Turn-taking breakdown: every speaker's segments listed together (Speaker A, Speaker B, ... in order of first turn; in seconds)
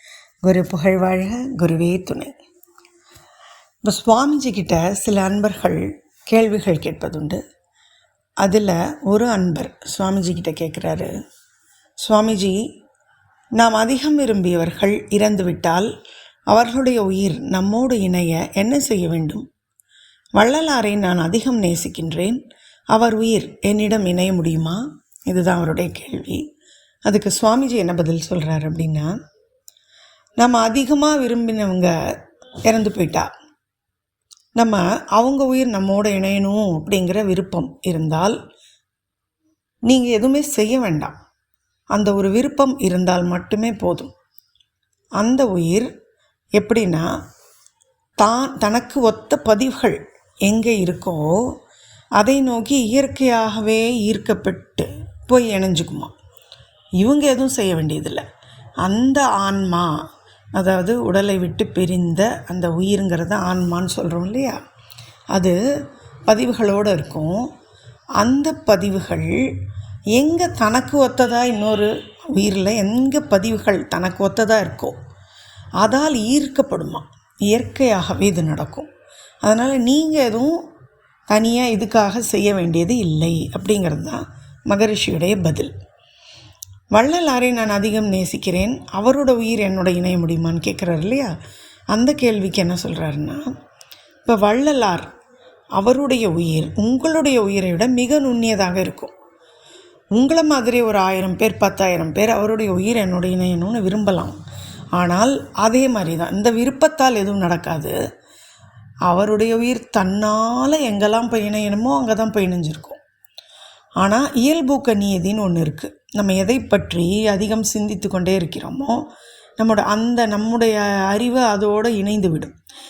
Speaker A: 0.4-2.3, 3.8-7.4, 8.4-11.1, 12.0-12.6, 13.6-15.9, 16.5-19.4, 20.4-22.4, 22.9-26.4, 27.1-29.1, 30.4-31.9, 32.7-33.3, 34.6-38.4, 39.9-41.1, 41.9-44.1, 45.2-45.9, 46.6-47.1, 48.2-51.2, 52.2-56.1, 57.0-58.2, 58.8-59.9, 60.5-64.6, 66.3-67.5, 68.2-69.3, 70.2-74.9, 75.8-78.9, 79.4-80.6, 81.3-85.7, 86.9-91.3, 91.9-93.4, 94.2-95.1, 95.8-99.1, 100.2-104.3, 105.0-107.9, 109.1-113.0, 114.0-119.0, 119.6-122.5